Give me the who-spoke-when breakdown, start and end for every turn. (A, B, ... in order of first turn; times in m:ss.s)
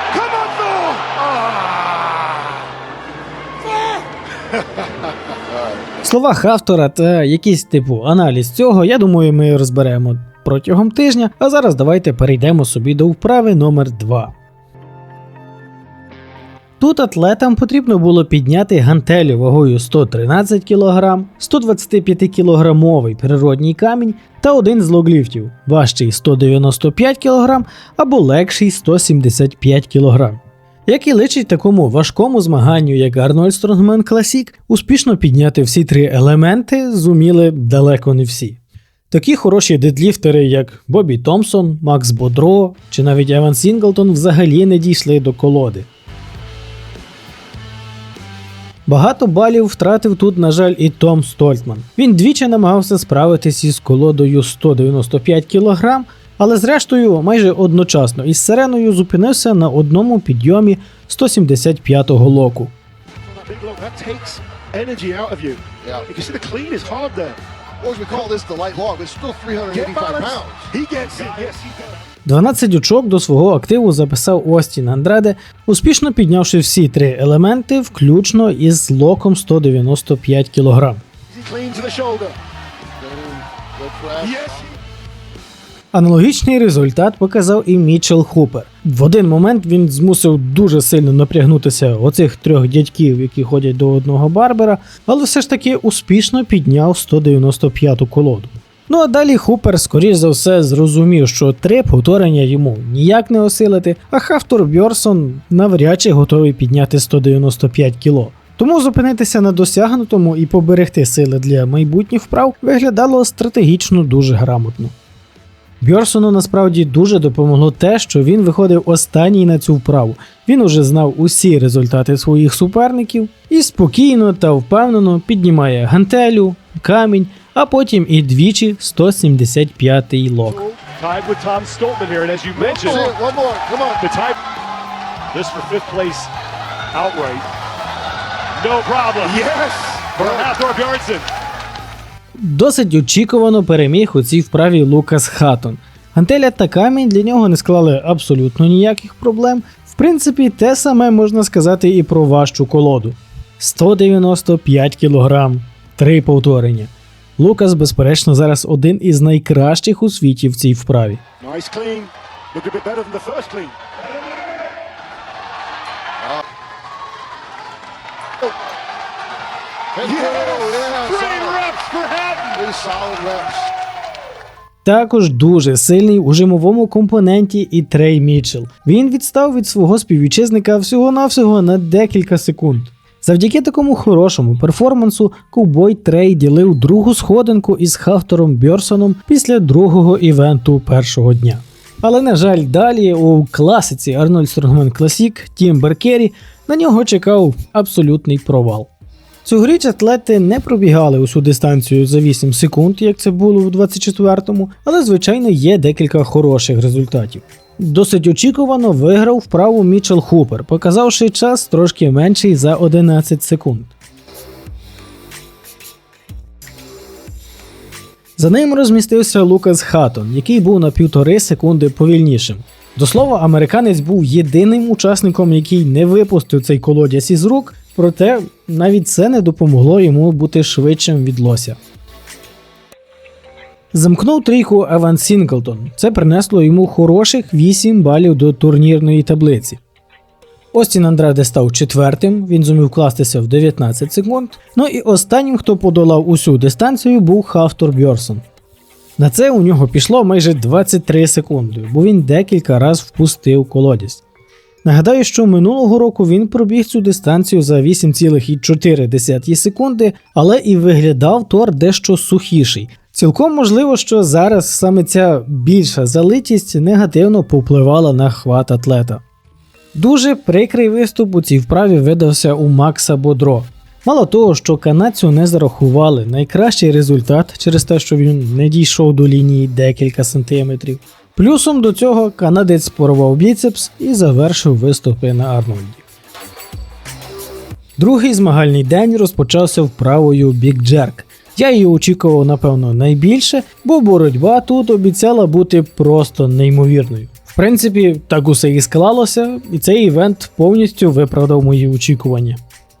0:00.1-0:02.3 A
0:06.0-0:14.3 B
0:16.8-0:45.9 B
0:48.9-1:02.7 B
1:03.3-1:07.4 A
1:07.8-1:10.7 C
1:09.7-1:11.9 A
1:12.2-1:21.0 B
1:21.3-1:22.4 A
1:23.0-1:24.4 C
1:24.2-1:24.6 A
1:25.9-1:54.9 B
1:55.8-2:10.7 B
2:10.7-2:13.2 A
2:12.8-2:14.0 C
2:13.9-2:14.4 A
2:15.3-2:16.3 A
2:16.9-2:17.5 A
2:18.6-2:21.3 A
2:22.3-2:41.2 B
2:41.4-2:43.8 A
2:50.0-2:53.0 A
2:50.0-2:51.4 C
2:52.7-2:53.7 C
2:54.8-3:18.9 B
3:19.4-3:33.9 B
3:38.4-3:51.8 B
3:53.9-3:59.8 B
4:00.7-4:08.4 B
4:09.2-4:14.2 B
4:14.8-4:29.2 B
4:29.9-4:46.0 B
4:48.0-5:02.6 B